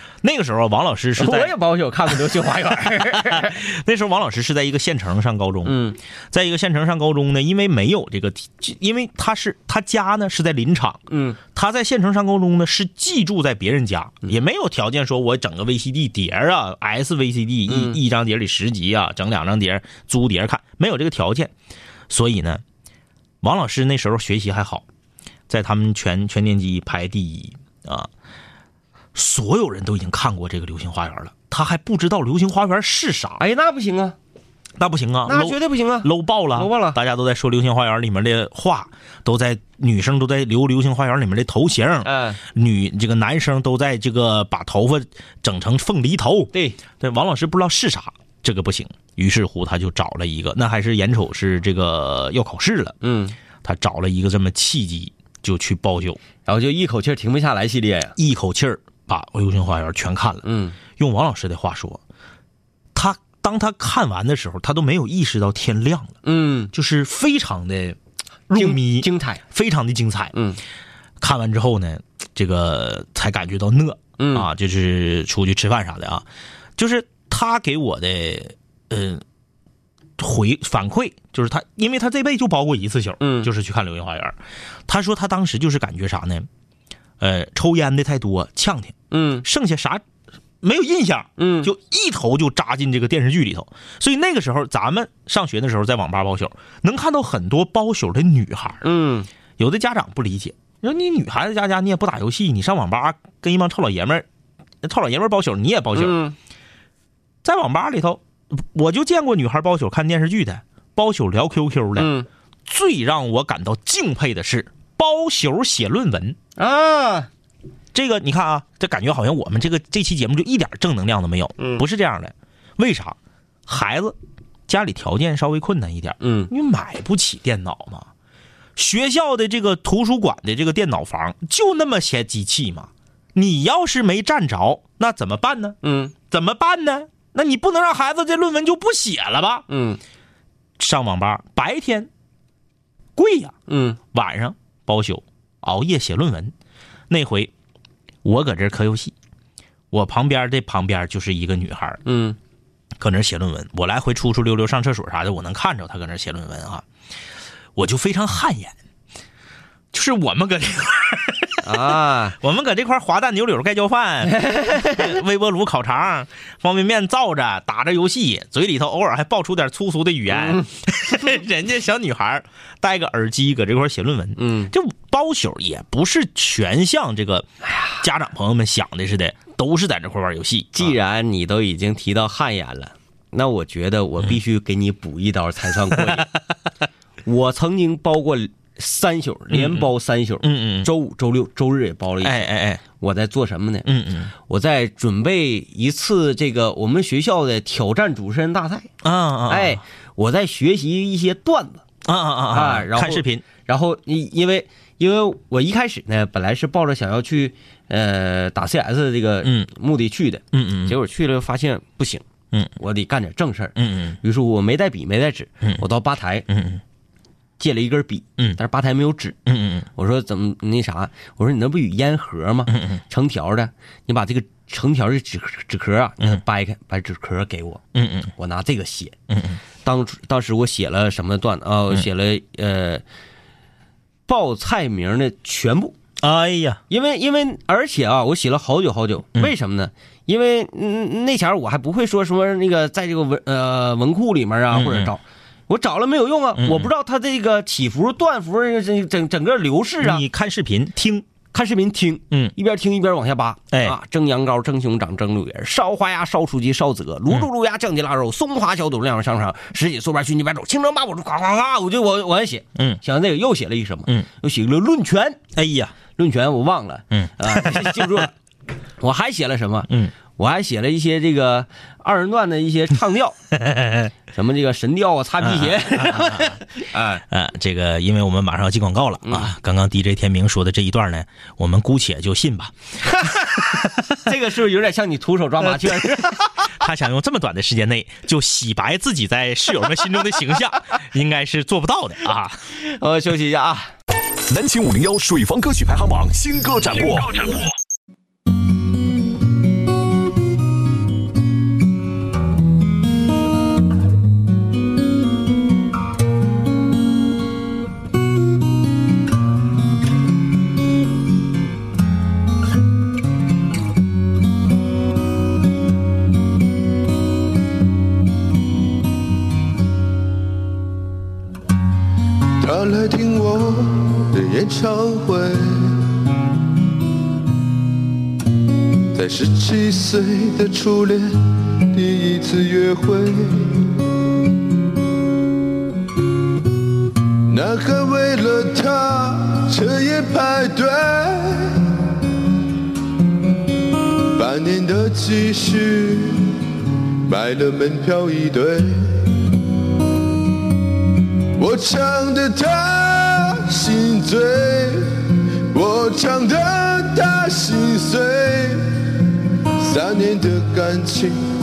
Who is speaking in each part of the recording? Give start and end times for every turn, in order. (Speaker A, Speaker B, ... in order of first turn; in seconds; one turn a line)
Speaker A: 0.2-1.6
Speaker B: 1.2-3.6
Speaker A: 2.9-21.5
Speaker B: 5.7-6.0
Speaker B: 11.1-11.4
Speaker B: 17.7-18.0
Speaker A: 22.1-22.6
Speaker A: 23.4-24.9
Speaker A: 25.5-28.1
Speaker A: 29.1-33.4
Speaker B: 33.4-34.2
Speaker A: 34.8-53.0
Speaker B: 35.3-37.0
Speaker B: 42.0-42.4
Speaker B: 46.5-46.8
Speaker B: 53.0-53.4
Speaker A: 53.6-56.2
Speaker B: 56.5-58.1
Speaker A: 58.2-62.0
Speaker B: 60.5-60.8
Speaker A: 62.9-66.2
Speaker B: 66.2-66.7
Speaker A: 66.7-68.0
Speaker A: 68.5-70.3
Speaker B: 68.5-69.4
Speaker B: 70.3-70.6
Speaker A: 71.2-76.2
Speaker B: 74.2-74.5
Speaker A: 76.8-79.2
Speaker A: 80.2-86.5
Speaker B: 83.2-83.5
Speaker A: 87.2-90.0
Speaker B: 89.1-89.5
Speaker A: 90.6-98.8
Speaker B: 91.4-91.7
Speaker B: 98.8-99.3
Speaker A: 99.6-104.3
Speaker A: 104.8-106.2
Speaker B: 106.0-106.3
Speaker A: 107.4-112.1
Speaker B: 112.0-112.3
Speaker A: 112.7-116.4
Speaker B: 116.6-117.3
Speaker A: 117.9-124.2
Speaker B: 121.6-121.8
Speaker A: 124.7-128.1
Speaker B: 126.2-126.5
Speaker A: 128.8-139.7
Speaker B: 135.8-136.1
Speaker B: 139.7-140.0
Speaker A: 140.8-142.1
Speaker A: 143.2-143.6
Speaker B: 143.7-144.0
Speaker A: 144.1-146.5
Speaker A: 147.1-147.5
Speaker A: 148.2-149.1
Speaker A: 149.9-152.0
Speaker B: 152.1-152.4
Speaker A: 153.0-156.8
Speaker A: 157.8-158.8
Speaker A: 159.9-181.0
Speaker B: 161.6-162.4
Speaker B: 164.3-165.1
Speaker B: 170.3-170.7
Speaker B: 174.4-174.7
Speaker B: 180.7-186.3
Speaker B: 187.2-198.9
Speaker A: 189.5-189.9
Speaker A: 190.4-190.9
Speaker A: 192.2-192.8
Speaker A: 193.8-194.3
Speaker A: 199.0-199.8
Speaker B: 199.5-201.8
Speaker A: 202.1-203.4
Speaker B: 202.5-212.2
Speaker A: 209.4-209.7
Speaker A: 210.5-211.0
Speaker B: 212.8-216.5
Speaker A: 213.8-214.2
Speaker A: 216.5-216.8
Speaker B: 217.6-219.4
Speaker A: 219.5-219.9
Speaker B: 220.0-227.8
Speaker A: 222.7-223.0
Speaker A: 227.9-228.3
Speaker B: 228.4-229.1
Speaker A: 229.3-229.6
Speaker B: 229.8-233.0
Speaker B: 234.3-236.0
Speaker A: 236.2-236.8
Speaker B: 236.9-250.2
Speaker A: 244.7-245.1
Speaker A: 246.6-246.9
Speaker A: 250.0-251.3
Speaker B: 251.5-265.4
Speaker A: 253.7-254.0
Speaker A: 262.8-263.0
Speaker A: 265.5-266.0
Speaker B: 266.1-268.3
Speaker A: 267.1-268.2
Speaker B: 269.0-273.4
Speaker A: 273.5-274.1
Speaker B: 274.3-277.2
Speaker A: 275.4-276.6
Speaker A: 277.3-283.3
Speaker B: 279.2-279.5
Speaker B: 283.2-286.5
Speaker A: 285.8-292.6
Speaker B: 292.8-293.9
Speaker C: 294.5-297.7
Speaker D: 322.6-326.0
Speaker D: 329.1-331.4
Speaker D: 331.9-333.9
Speaker D: 337.5-341.9
Speaker D: 344.4-346.5
Speaker D: 347.2-349.3
Speaker D: 351.6-358.9
Speaker D: 359.8-361.4